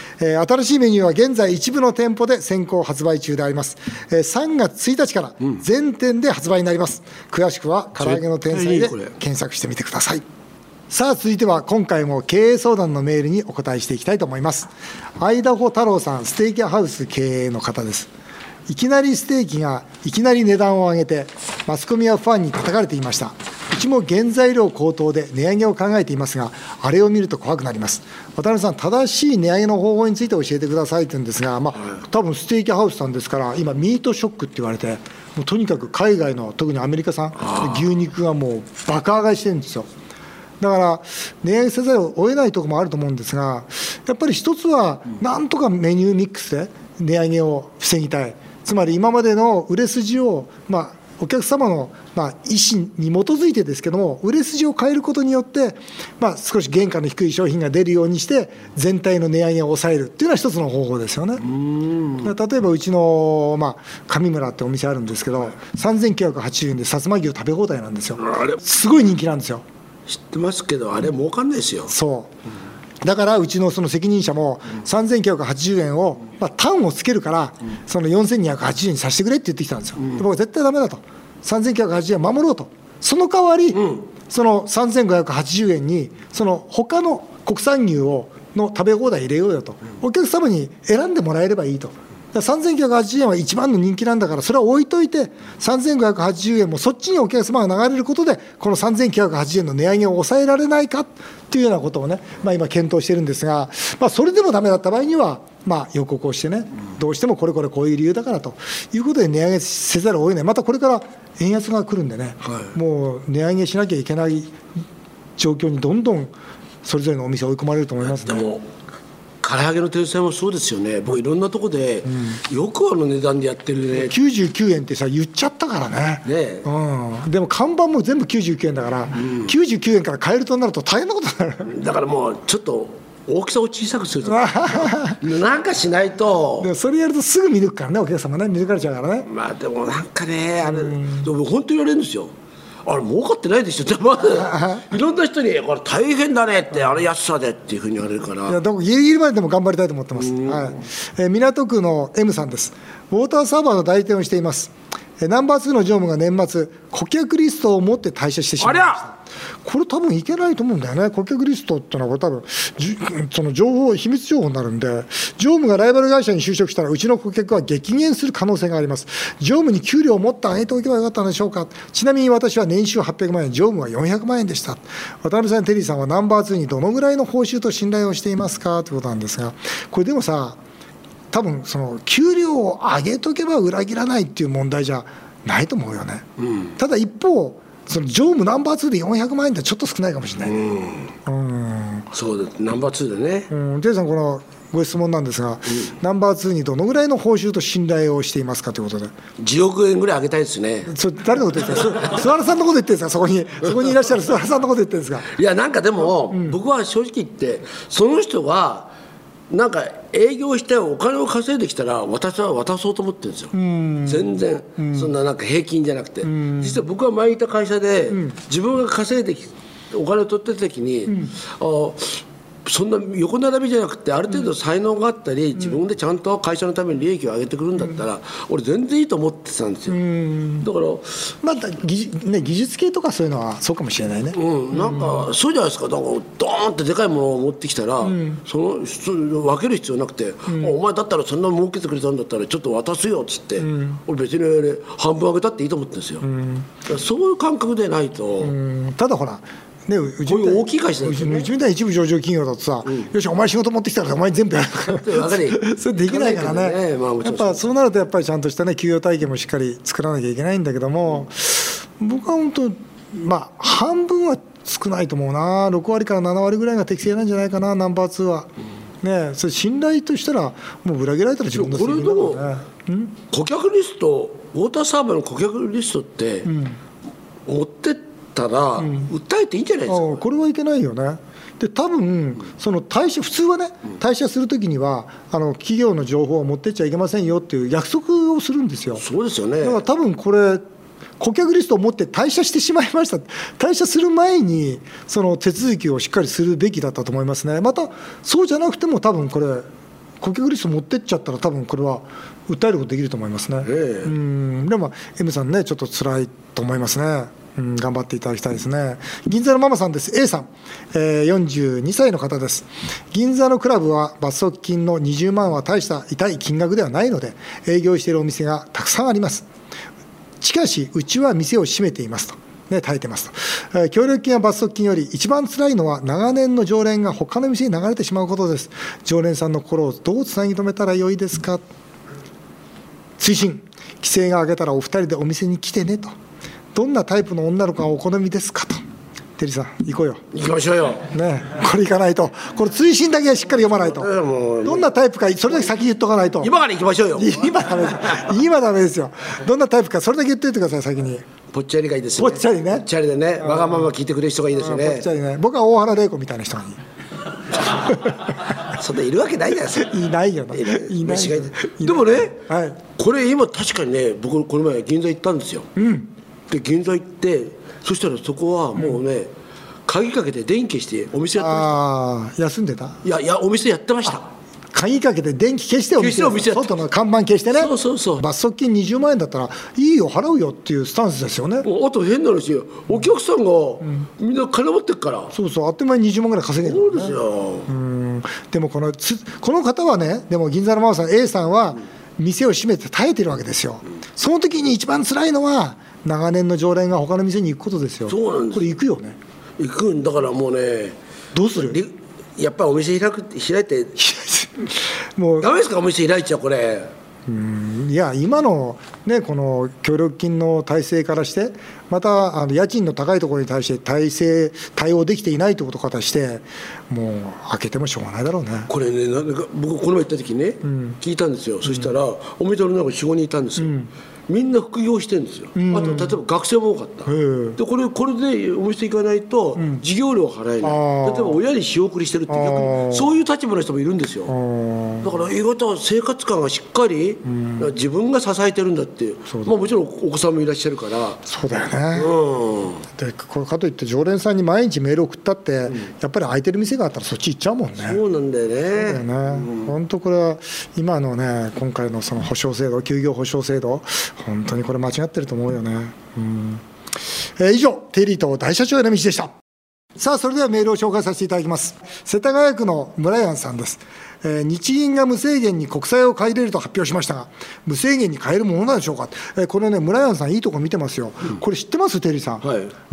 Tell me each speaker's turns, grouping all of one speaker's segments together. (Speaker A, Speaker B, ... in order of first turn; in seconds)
Speaker A: 0.2-10.2, 10.9-18.1, 18.7-39.9, 40.6-61.5, 62.2-69.6, 71.9-72.3, 73.0-114.5, 115.4-116.3, 116.8-118.5, 122.1-122.4, 123.9-131.7, 134.2-135.2, 136.6-139.3, 140.6-141.3, 144.3-144.8, 148.5-180.6, 181.3-186.2, 186.8-190.6, 191.2-192.1, 193.5-199.1, 200.9-205.3, 206.3-206.6, 213.5-215.1, 216.2-216.8, 229.9-230.7, 231.4-235.2, 238.0-238.4, 240.5-240.8, 243.6-244.0, 246.2-246.7, 248.4-268.5, 269.0-273.1, 276.4-276.8, 278.8-279.1, 279.9-289.0, 289.6-290.6, 291.2-299.7, 300.2-319.4, 320.4-331.6, 333.2-336.1, 336.7-338.8, 339.4-340.2, 341.1-344.1, 344.6-346.5, 347.1-351.2, 352.2-352.9, 353.4-353.9, 354.6-356.8, 359.8-362.8, 365.8-366.1, 371.4-373.0, 374.7-381.7, 385.3-399.2, 401.3-401.8, 404.0-405.5, 407.3-418.7, 420.6-421.0, 423.6-423.9, 425.6-426.1, 427.1-427.6, 429.6-429.8, 430.6-431.4, 432.3-433.1, 434.3-435.2, 437.2-437.7, 439.3-439.6, 441.2-442.1, 442.9-448.0, 448.8-456.6, 457.4-459.3, 460.0-472.4
Speaker B: 8.0-9.1, 61.4-62.3, 70.1-71.9, 118.0-118.6, 119.4-124.1, 126.2-126.7, 129.2-129.5, 131.7-136.7, 139.3-142.3, 142.8-148.6, 150.2-150.7, 158.6-159.0, 186.4-186.7, 190.4-191.1, 192.1-193.5, 199.4-200.9, 205.3-208.9, 209.5-213.5, 214.1-230.0, 230.6-231.2, 234.3-246.2, 246.8-248.5, 250.3-251.5, 254.9-257.6, 271.5-272.4, 273.3-276.5, 277.4-280.2, 289.0-289.8, 303.6-304.1, 340.3-341.1, 343.9-344.9, 346.4-347.5, 351.5-355.1, 358.6-359.9, 360.5-362.4, 362.9-365.7, 366.5-369.3, 369.9-371.8, 373.0-374.3, 376.0-376.8, 377.5-378.2, 381.6-385.3, 386.6-387.7, 398.1-398.7, 399.6-401.0, 401.6-404.0, 405.4-406.9, 418.7-423.7, 424.3-434.3, 435.0-441.2, 441.9-442.8, 447.8-449.7, 472.4-472.7